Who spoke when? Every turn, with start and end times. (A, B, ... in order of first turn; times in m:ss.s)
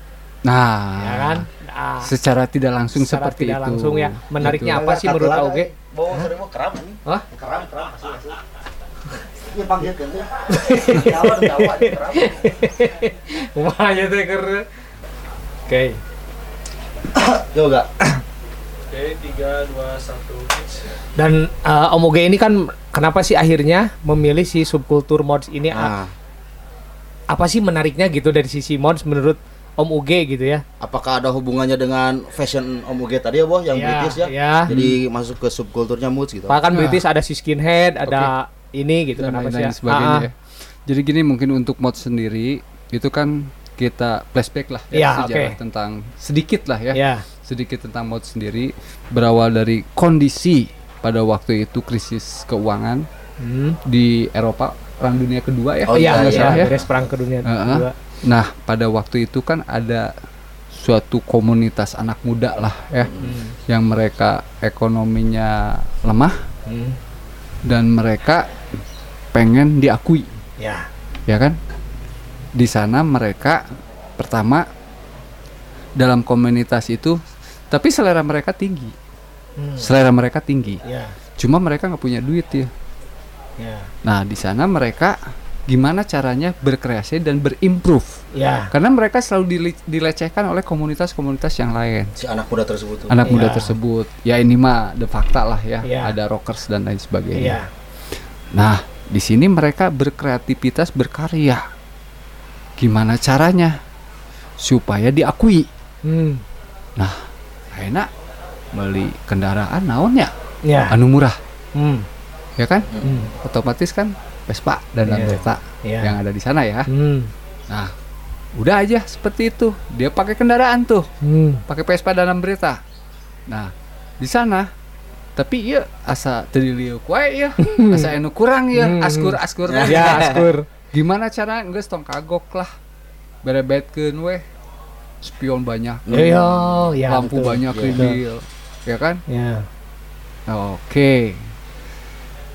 0:00.4-0:01.4 A
0:01.0-0:02.1 B
0:02.0-0:04.8 A
0:02.9-0:06.3 B
0:04.4-0:08.4 C
0:09.3-0:12.4 C
0:10.5-0:14.6 B
0:15.7-0:16.0 B
0:17.1-0:18.2 C
0:18.9-0:20.7 A
0:21.2-0:25.9 B
0:25.7-0:26.1 C
0:27.3-0:30.6 B
0:30.8-0:36.6 C
0:33.7-0:34.7 B
0:36.5-0:40.2 B
0:36.7-0:37.0 A
0:38.0-0:38.3 A
0:39.2-0:53.1 A
0:44.9-0:45.6 B
0:46.9-0:47.2 B
0:53.4-0:53.8 B
0:53.8-0:56.8 A
0:55.8-0:56.8 C
0:56.0-0:57.9 B
0:57.4-1:00.1 A
1:00.8-1:06.4 A
1:03.0-1:03.4 C
1:03.2-1:03.6 B
1:06.7-1:07.0 B
1:07.6-1:08.4 A
1:09.3-1:10.3 A
1:10.6-1:10.9 B
1:11.3-1:11.6 A
1:12.5-1:13.6 A
1:14.2-1:14.7 A
1:16.0-1:17.2 A
1:17.7-1:18.9 A
1:19.6-1:19.9 B
1:19.8-1:20.8 A
1:20.8-1:21.1 B
1:21.4-1:22.7 A
1:23.6-1:23.9 B
1:24.0-1:25.2 A
1:25.7-1:32.1 A
1:28.3-1:28.7 B
1:32.2-1:33.2 C
1:33.1-1:37.6 A
1:33.2-1:33.7 B
1:35.8-1:36.1 B
1:37.4-1:37.7 B
1:38.5-1:41.6 A
1:42.8-1:43.8 A
1:44.6-1:45.7 A
1:46.0-1:46.4 B
1:47.7-1:48.1 A
1:48.7-1:50.3 A
1:50.6-1:51.0 B
1:50.9-1:51.4 A
1:51.7-1:52.0 B
1:52.6-1:56.9 A
1:52.9-1:53.2 C
1:53.0-1:53.3 B
1:55.0-1:56.2 B
1:56.9-1:57.3 B
1:58.6-2:01.1 A
2:01.2-2:01.6 B
2:01.7-2:02.8 A
2:03.5-2:04.7 A
2:05.4-2:10.3 A
2:07.6-2:08.1 B
2:08.7-2:10.6 B
2:09.7-2:10.5 C
2:10.9-2:12.7 A
2:13.4-2:14.4 A
2:15.2-2:19.2 A
2:16.0-2:16.6 C
2:16.1-2:18.2 B
2:17.7-2:18.1 C
2:19.3-2:19.7 B
2:20.5-2:21.5 A